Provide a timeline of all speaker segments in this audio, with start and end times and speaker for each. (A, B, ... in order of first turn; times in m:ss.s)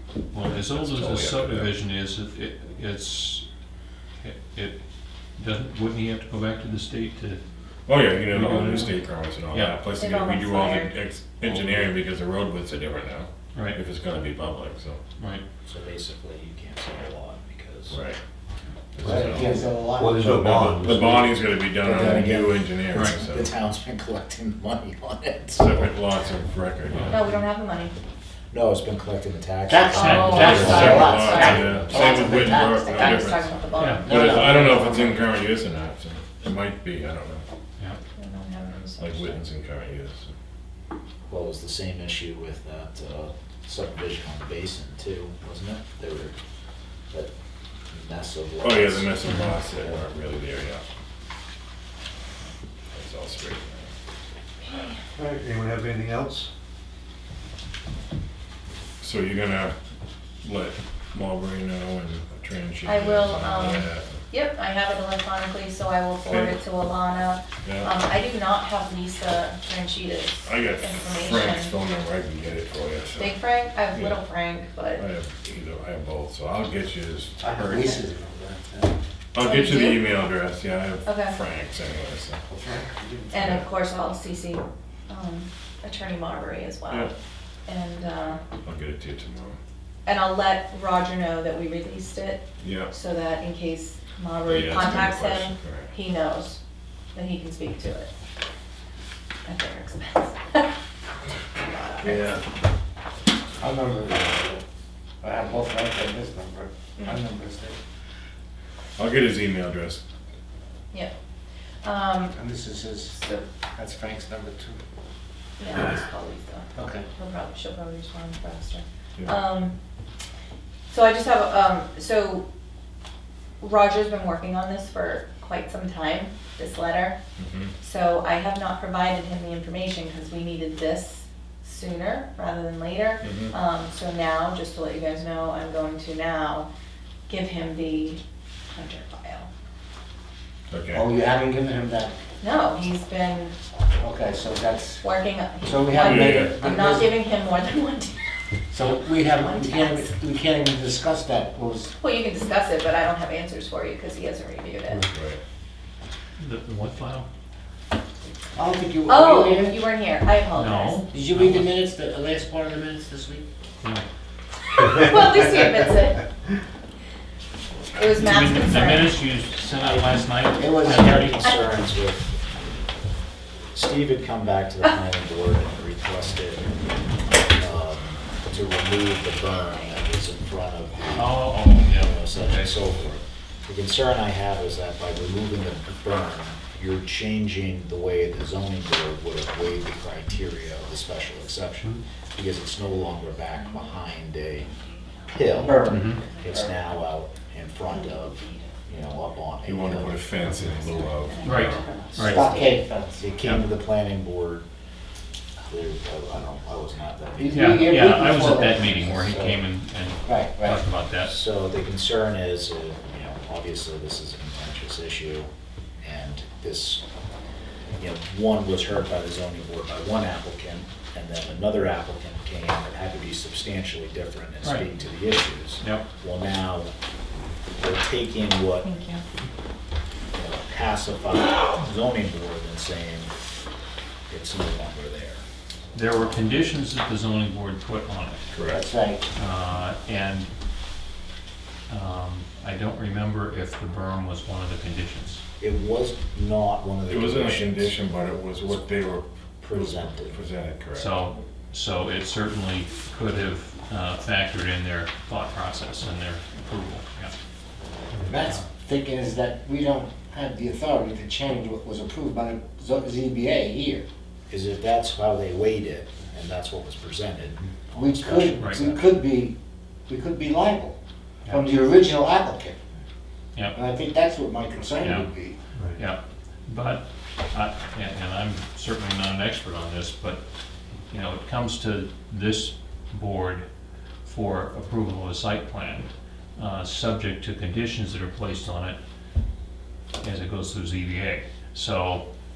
0:00.3-0:03.4 A
0:00.4-0:01.8 B
0:04.2-0:04.8 A
0:05.4-0:07.4 A
0:07.9-0:15.0 B
0:08.3-0:09.0 A
0:09.5-0:09.8 A
0:10.0-0:10.9 C
0:15.7-0:17.9 D
0:17.9-0:18.2 B
0:19.0-0:19.5 B
0:19.0-0:20.6 E
0:19.9-0:21.4 F
0:20.4-0:20.9 D
0:20.8-0:23.5 B
0:21.8-0:25.9 D
0:21.9-0:22.4 E
0:22.9-0:23.2 A
0:25.6-0:27.2 B
0:27.1-0:27.9 C
0:28.5-0:32.0 D
0:29.7-0:32.9 E
0:29.9-0:31.0 A
0:29.9-0:34.1 C
0:30.5-0:37.4 B
0:33.8-0:34.1 A
0:34.0-0:35.2 E
0:38.2-0:39.4 C
0:39.0-0:40.3 B
0:41.3-0:46.3 D
0:47.9-0:50.0 D
0:48.6-0:50.8 B
0:52.9-0:53.9 B
0:54.6-0:55.0 C
0:55.2-0:56.5 F
0:59.0-0:59.7 B
1:00.4-1:04.1 B
1:02.8-1:11.7 C
1:06.3-1:06.6 B
1:07.6-1:07.9 B
1:10.4-1:13.4 B
1:13.2-1:15.0 C
1:13.9-1:14.2 B
1:15.0-1:18.0 B
1:17.4-1:18.9 E
1:19.3-1:22.4 B
1:19.4-1:20.1 C
1:21.0-1:21.4 C
1:22.5-1:23.4 E
1:23.3-1:27.1 C
1:23.4-1:23.6 B
1:27.7-1:28.4 C
1:28.6-1:29.6 B
1:30.0-1:36.6 C
1:32.6-1:32.9 B
1:34.4-1:35.9 B
1:37.1-1:38.1 C
1:39.4-1:40.7 C
1:41.6-1:42.3 C
1:42.0-1:42.4 E
1:43.6-1:44.6 E
1:45.2-1:47.8 E
1:49.0-1:50.0 B
1:51.8-1:52.4 C
1:52.3-1:53.2 E
1:53.8-1:54.8 E
1:55.6-1:59.7 C
1:56.7-1:57.0 E
2:00.9-2:02.4 C
2:03.6-2:07.2 C
2:07.4-2:07.7 B
2:07.8-2:16.7 C
2:13.2-2:13.5 B
2:17.3-2:18.2 C
2:18.7-2:19.5 C
2:20.7-2:21.1 B
2:20.9-2:22.1 E
2:22.4-2:23.5 C
2:24.0-2:25.0 E
2:25.0-2:28.2 C
2:25.6-2:27.1 E
2:26.0-2:26.6 B
2:28.7-2:31.9 E
2:28.8-2:30.1 C
2:32.0-2:35.0 C
2:35.1-2:35.4 B
2:36.4-2:37.3 A
2:38.5-2:39.8 E
2:39.0-2:41.0 C
2:40.5-2:41.7 A
2:41.1-2:43.4 E
2:44.8-2:46.2 C
2:47.9-2:49.1 C
2:48.2-2:51.4 A
2:50.6-2:51.3 E
2:50.8-2:52.7 D
2:53.7-2:56.7 D
2:57.4-3:14.8 D
3:01.1-3:02.6 A
3:14.9-3:15.2 C
3:15.3-3:20.2 D
3:15.5-3:16.7 E
3:15.9-3:16.2 A
3:18.3-3:18.6 C
3:19.6-3:21.8 B
3:20.7-3:22.8 C
3:21.4-3:22.5 A
3:22.2-3:23.2 E
3:23.2-3:24.6 D
3:25.7-3:29.6 D
3:27.4-3:28.8 E
3:27.5-3:31.3 A
3:30.2-3:30.8 E
3:31.2-3:35.5 D
3:36.0-3:37.0 D
3:38.0-3:46.9 D
3:44.6-3:44.9 A
3:47.8-3:48.9 D
3:48.8-3:49.2 C
3:50.3-3:53.3 D
3:54.3-3:55.4 D
3:55.9-3:58.5 A
3:58.5-3:58.8 B
3:58.7-3:59.3 E
3:59.3-4:00.5 A
4:01.9-4:05.4 A
4:05.6-4:07.9 D
4:07.1-4:11.2 B
4:09.6-4:10.4 D
4:11.0-4:17.3 A
4:18.1-4:18.4 F
4:18.3-4:24.0 E
4:24.5-4:29.0 D
4:27.9-4:29.5 E
4:28.6-4:28.8 A
4:30.1-4:31.0 E
4:31.5-4:32.8 E
4:33.7-4:35.6 E
4:35.0-4:35.3 A
4:36.0-4:40.4 A
4:41.1-4:43.6 A
4:44.2-4:49.0 A
4:50.2-4:52.2 A